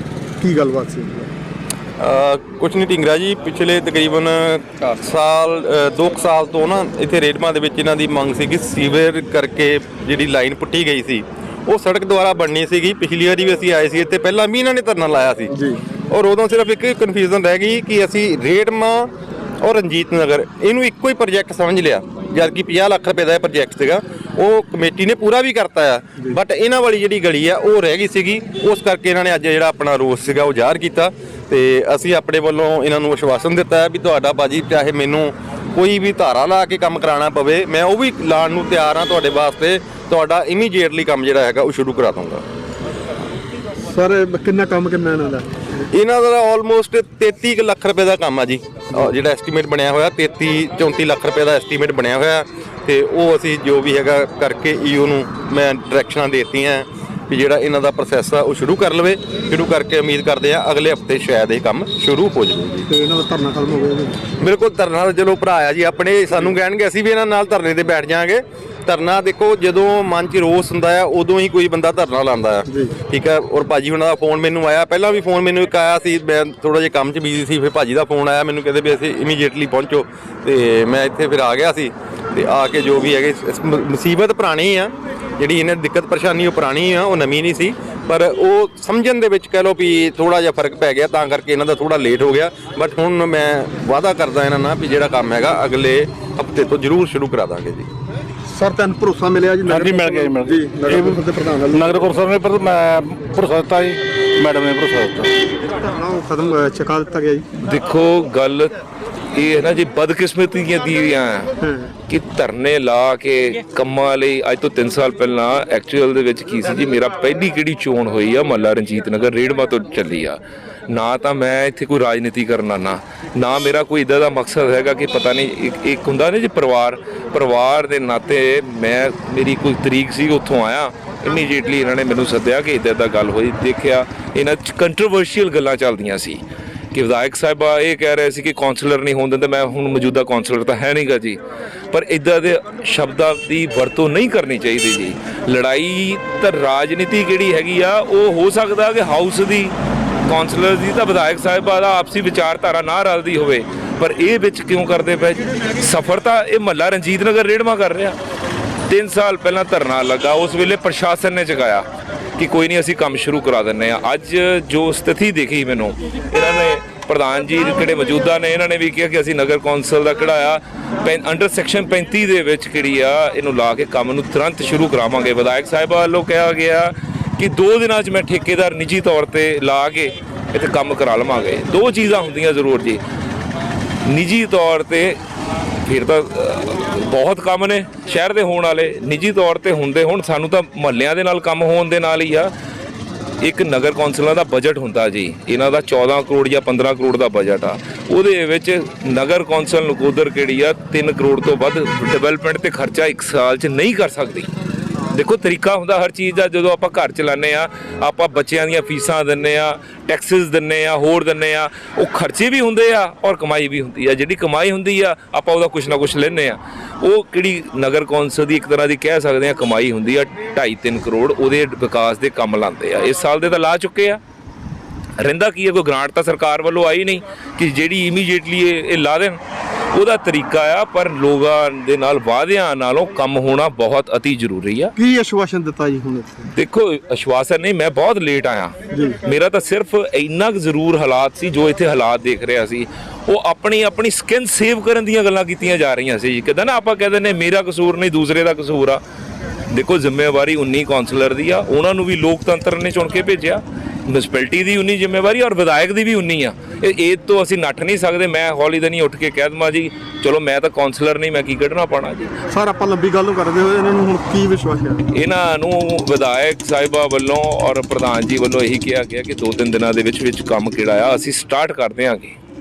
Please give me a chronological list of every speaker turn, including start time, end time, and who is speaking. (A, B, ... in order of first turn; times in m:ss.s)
0:00.4-0:01.3 A
0:02.0-0:15.5 B
0:15.5-0:15.8 A
0:16.1-0:19.1 B
0:19.6-0:42.4 B
0:43.9-0:45.5 A
0:45.9-1:02.9 B
1:02.9-1:04.2 A
1:04.4-1:37.9 B
1:12.7-1:12.9 A
1:38.5-1:41.9 A
1:39.6-1:41.2 C
1:41.7-1:45.3 C
1:45.8-1:47.4 A
1:47.6-1:48.7 D
1:49.3-1:51.5 D
1:51.6-1:51.9 A
1:52.1-2:00.4 D
2:00.9-2:16.4 D
2:16.9-2:21.4 D
2:21.9-2:29.7 D
2:30.2-2:38.2 D
2:38.9-2:41.8 D
2:42.4-3:03.0 D
3:04.1-3:05.2 D
3:05.8-3:12.5 D
3:13.4-3:24.5 D
3:25.1-3:44.2 D
3:45.2-3:49.4 D
3:49.9-3:54.9 D
3:55.0-3:56.4 A
3:56.5-4:09.0 D
4:09.7-4:22.3 D
4:22.5-4:25.0 A
4:25.1-4:32.3 D